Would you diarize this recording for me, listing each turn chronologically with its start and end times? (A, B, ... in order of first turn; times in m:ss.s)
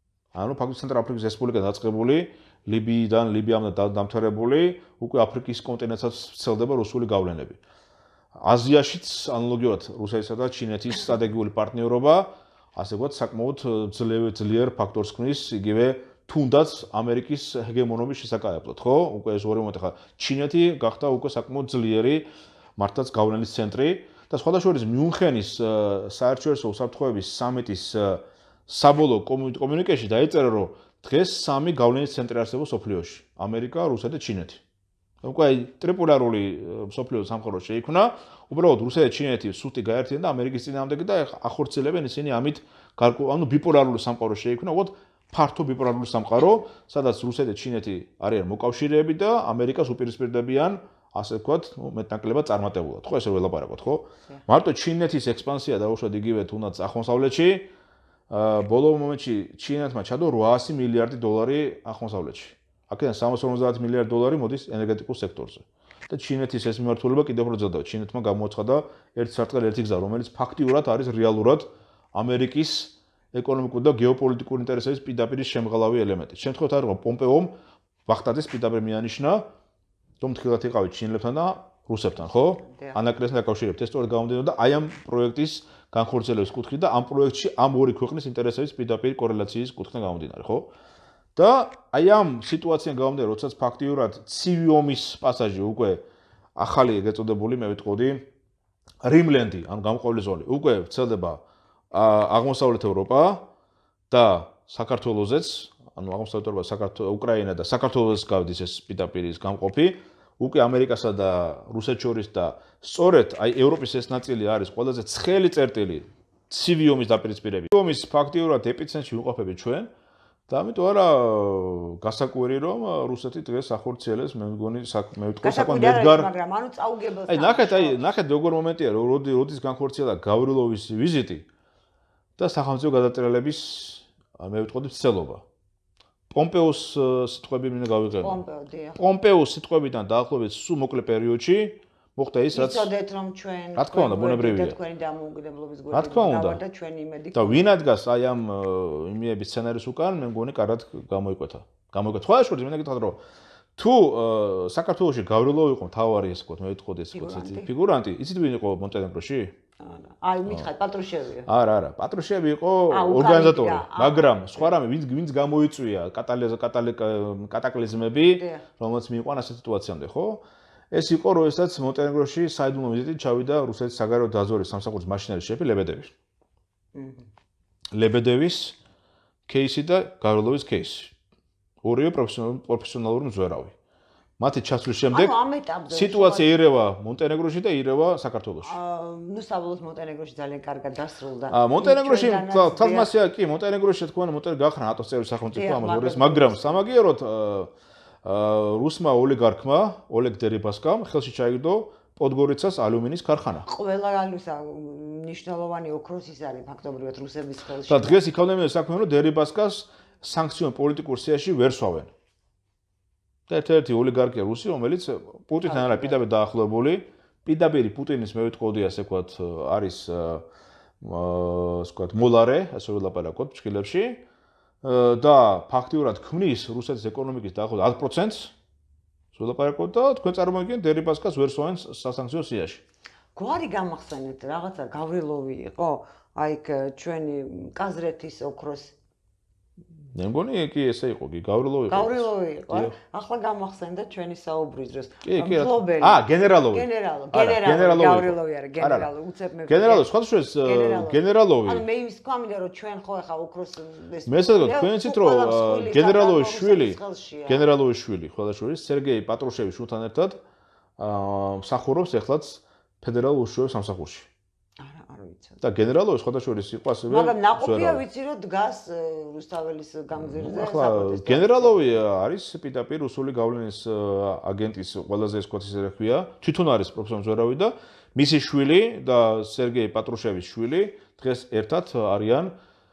0:00.3-0:07.6 A
0:08.4-0:34.6 A
0:35.2-0:57.7 A
0:58.3-1:17.6 A
1:18.1-1:19.4 A
1:20.2-1:30.7 A
1:22.4-1:23.0 B
1:31.4-1:36.0 A
1:36.6-1:38.3 A
1:39.0-1:43.5 A
1:44.1-1:59.9 A
2:00.5-2:06.3 A
2:05.4-2:08.0 B
2:07.3-2:11.5 A
2:12.4-2:15.4 A
2:16.3-2:18.4 A
2:18.2-2:19.0 B
2:19.0-2:22.9 A
2:22.5-2:27.7 B
2:23.8-2:24.8 A
2:25.9-2:26.6 A
2:27.4-2:33.2 A
2:33.8-2:39.6 A
2:37.1-2:37.7 B
2:39.8-2:41.5 B
2:41.5-2:56.1 A
2:42.9-2:44.7 B
2:48.1-2:48.7 B
2:57.0-2:57.3 B
2:57.9-2:58.8 A
2:59.5-3:01.2 A
3:01.8-3:03.8 A
3:04.4-3:05.4 A
3:05.1-3:06.5 B
3:05.9-3:08.8 A
3:08.6-3:13.1 B
3:11.5-3:17.7 A
3:15.5-3:16.8 B
3:18.2-3:23.7 A
3:23.7-3:28.2 B
3:27.9-3:32.1 A
3:33.5-3:40.5 A
3:35.6-3:36.2 B
3:41.0-3:44.2 A
3:44.8-3:48.5 A
3:49.3-3:52.8 A
3:53.4-3:59.0 B
4:00.1-4:03.0 A
4:01.9-4:17.7 B
4:05.2-4:09.1 A
4:09.7-4:11.9 A
4:14.3-4:20.4 A
4:21.0-4:24.3 A
4:24.8-4:25.6 B
4:25.6-4:28.0 A
4:27.1-4:32.0 B
4:30.2-4:42.5 A